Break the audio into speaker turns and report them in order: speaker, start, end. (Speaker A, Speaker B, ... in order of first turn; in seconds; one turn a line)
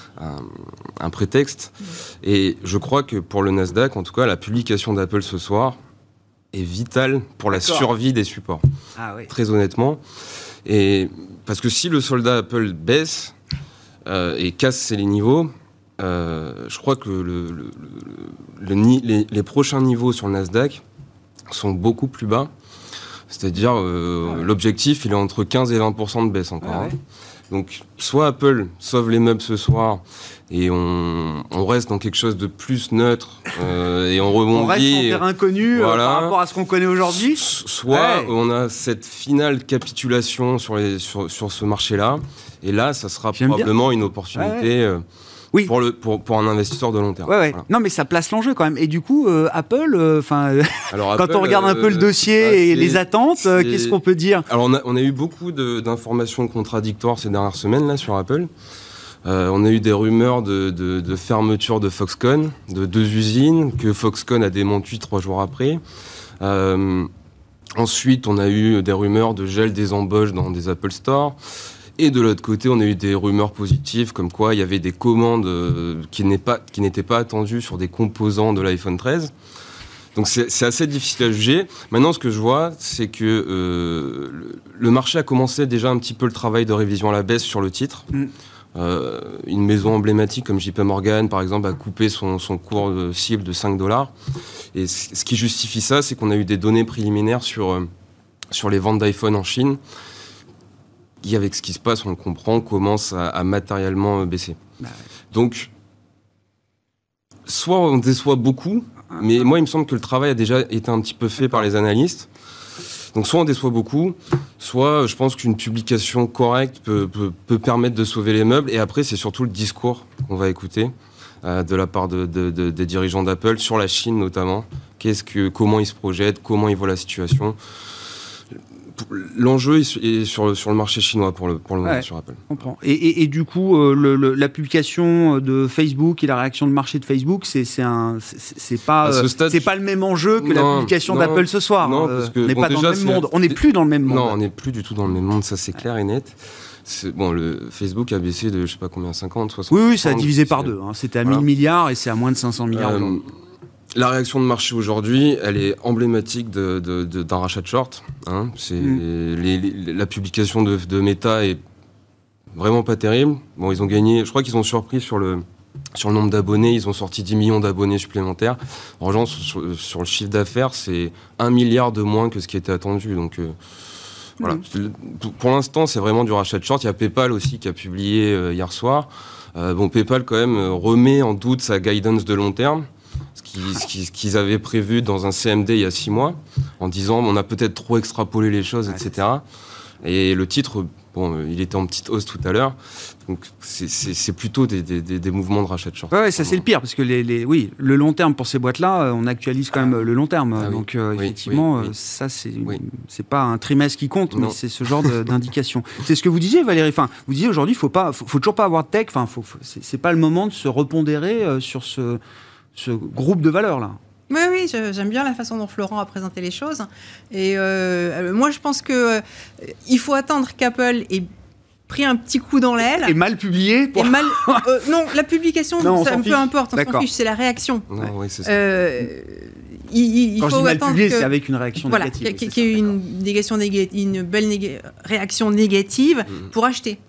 Speaker A: 0.2-5.8
Speaker A: 6.5-8.6
Speaker B: 7.5-7.9
Speaker B: 9.0-9.3
Speaker A: 9.3-10.0
Speaker A: 10.7-13.3
Speaker A: 14.1-20.8
Speaker A: 21.5-22.5
Speaker A: 23.3-26.9
Speaker B: 26.6-26.9
Speaker A: 27.5-36.4
Speaker B: 34.5-38.3
Speaker A: 37.3-45.0
Speaker B: 43.4-43.7
Speaker B: 44.3-44.7
Speaker A: 45.7-47.6
Speaker B: 47.3-54.5
Speaker A: 50.9-54.0
Speaker A: 54.5-58.5
Speaker A: 59.2-65.8
Speaker A: 66.4-67.1
Speaker A: 67.8-71.4
Speaker A: 72.0-79.3
Speaker A: 80.2-88.1
Speaker A: 88.8-94.1
Speaker A: 94.7-97.9
Speaker A: 98.5-99.8
Speaker A: 101.2-104.6
Speaker A: 105.3-105.7
Speaker A: 107.5-112.3
Speaker A: 113.1-127.6
Speaker A: 129.0-132.4
Speaker B: 131.8-144.4
Speaker A: 139.0-139.7
Speaker A: 140.4-143.6
Speaker A: 144.1-150.7
Speaker B: 149.7-153.2
Speaker A: 152.7-153.3
Speaker A: 153.9-161.6
Speaker A: 162.6-173.6
Speaker A: 174.4-189.4
Speaker A: 190.0-196.6
Speaker B: 196.1-212.2
Speaker A: 200.6-201.9
Speaker A: 204.3-205.1
Speaker B: 212.8-214.0
Speaker C: 214.3-221.3
Speaker C: 221.9-223.2
Speaker B: 223.0-224.7
Speaker C: 223.9-227.9
Speaker B: 225.8-227.1
Speaker A: 227.9-228.6
Speaker C: 228.4-237.0
Speaker B: 230.4-232.9